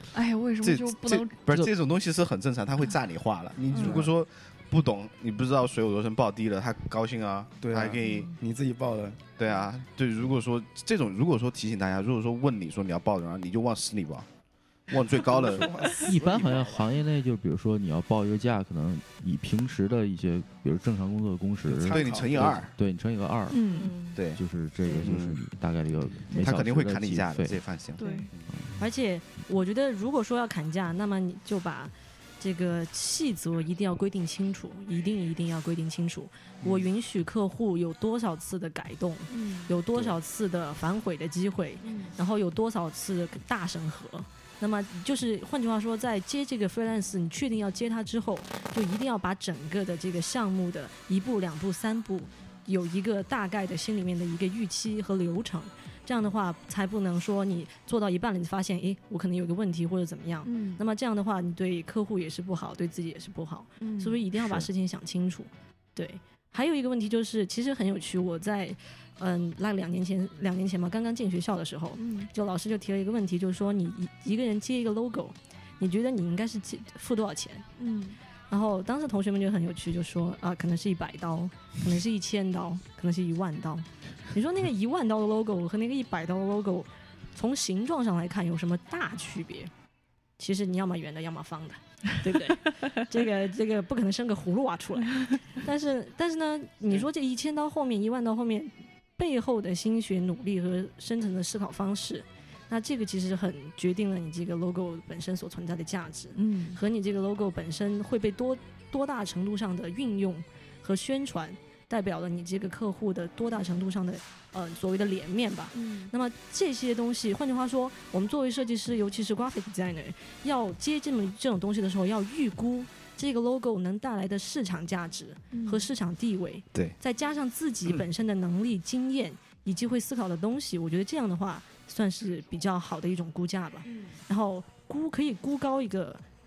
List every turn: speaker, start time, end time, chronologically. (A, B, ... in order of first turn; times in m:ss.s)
0:00.1-0:01.4 A
0:00.6-0:08.3 B
0:03.7-0:04.0 A
0:03.8-0:04.1 C
0:07.6-0:09.2 C
0:09.4-0:14.3 B
0:14.9-0:15.8 B
0:15.1-0:17.0 C
0:16.0-0:27.6 D
0:21.6-0:22.5 C
0:21.9-0:22.7 B
0:23.5-0:23.9 A
0:23.7-0:24.2 E
0:24.2-0:24.4 B
0:25.0-0:25.4 B
0:26.4-0:28.5 B
0:28.0-0:28.3 A
0:28.0-0:28.3 E
0:28.8-1:17.6 E
0:39.3-0:39.8 A
0:41.8-0:42.1 A
1:00.4-1:00.8 A
1:03.8-1:04.2 A
1:12.0-1:12.3 A
1:17.8-1:18.2 A
1:18.5-1:29.7 E
1:30.4-2:16.2 E
1:46.3-1:46.8 A
1:55.7-1:56.1 A
2:05.5-2:05.9 A
2:13.8-2:14.2 A